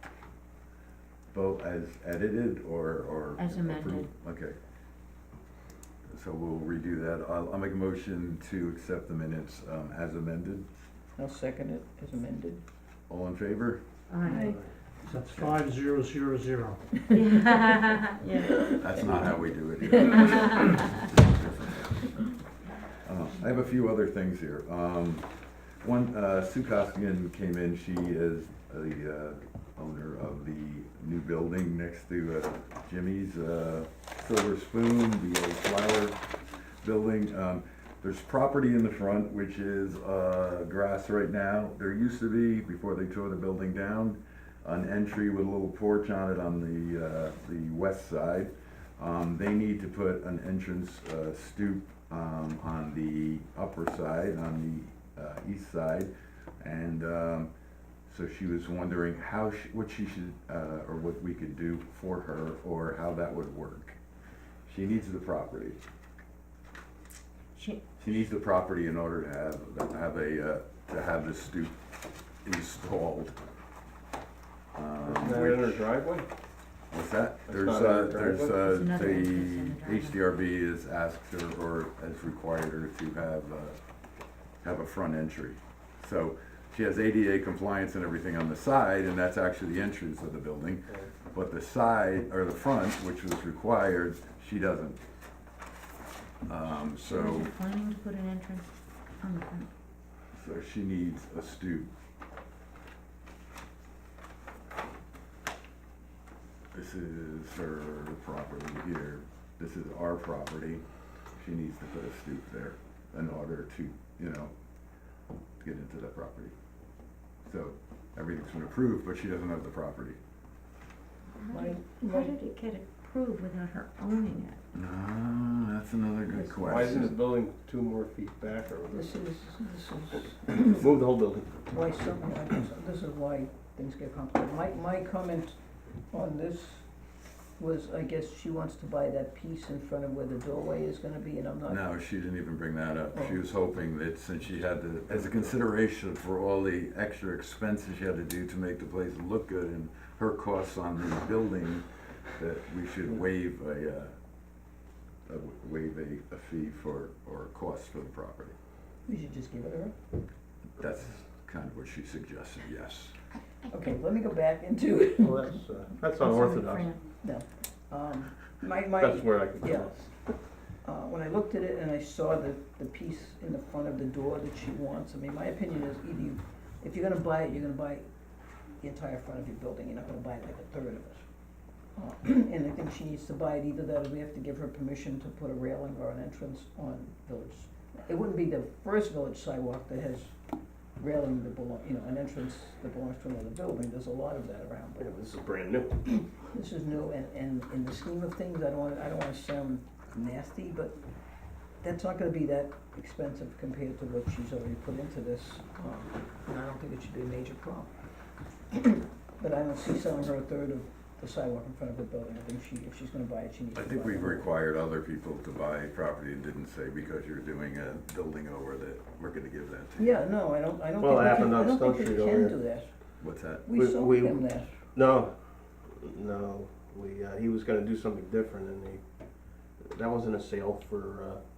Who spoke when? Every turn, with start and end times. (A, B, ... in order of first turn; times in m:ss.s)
0:01.3-0:04.6 A
0:03.4-0:04.1 B
0:06.1-0:10.7 A
0:11.2-0:12.6 C
0:13.1-0:13.8 A
0:14.1-0:14.6 B
0:14.2-0:14.6 C
0:15.0-0:17.0 D
0:15.3-0:15.6 A
0:17.1-0:18.9 B
0:18.8-0:22.2 A
0:20.1-0:20.7 B
0:23.0-0:25.3 A
0:25.8-0:36.2 A
0:36.8-0:57.5 A
0:58.1-1:04.0 A
1:04.6-1:05.8 A
1:07.5-1:07.9 B
1:08.0-1:11.8 A
1:12.4-1:13.3 A
1:14.7-1:15.9 A
1:15.0-1:16.3 E
1:16.9-1:23.8 A
1:17.4-1:18.6 E
1:18.5-1:20.2 B
1:24.6-1:35.0 A
1:36.4-1:37.5 A
1:37.0-1:39.7 B
1:40.3-1:41.9 A
1:46.7-1:50.8 A
1:51.4-1:54.5 A
1:55.6-1:56.5 A
1:57.4-2:00.2 A
2:01.4-2:04.6 B
2:01.5-2:02.4 C
2:04.7-2:07.1 A
2:06.5-2:09.1 E
2:08.9-2:10.9 C
2:10.8-2:11.7 E
2:11.7-2:15.6 C
2:16.1-2:16.9 C
2:17.6-2:21.8 C
2:21.7-2:31.8 A
2:23.1-2:23.4 C
2:32.4-2:34.1 A
2:35.3-2:38.5 A
2:39.0-2:39.9 C
2:40.8-2:43.1 A
2:43.7-2:45.6 C
2:45.2-2:47.0 E
2:46.1-2:47.0 B
2:47.2-2:49.9 C
2:49.0-2:50.1 E
2:50.8-2:58.0 C
2:58.8-3:01.2 C
3:02.0-3:10.3 C
3:11.0-3:15.1 C
3:15.0-3:16.0 E
3:16.0-3:21.0 C
3:21.8-3:27.9 C
3:28.7-3:34.5 C
3:33.7-3:40.1 A
3:40.0-3:42.9 C
3:41.0-3:42.5 E
3:43.2-3:43.7 A
3:43.6-3:44.7 C
3:43.7-3:49.0 E
3:49.8-3:51.4 E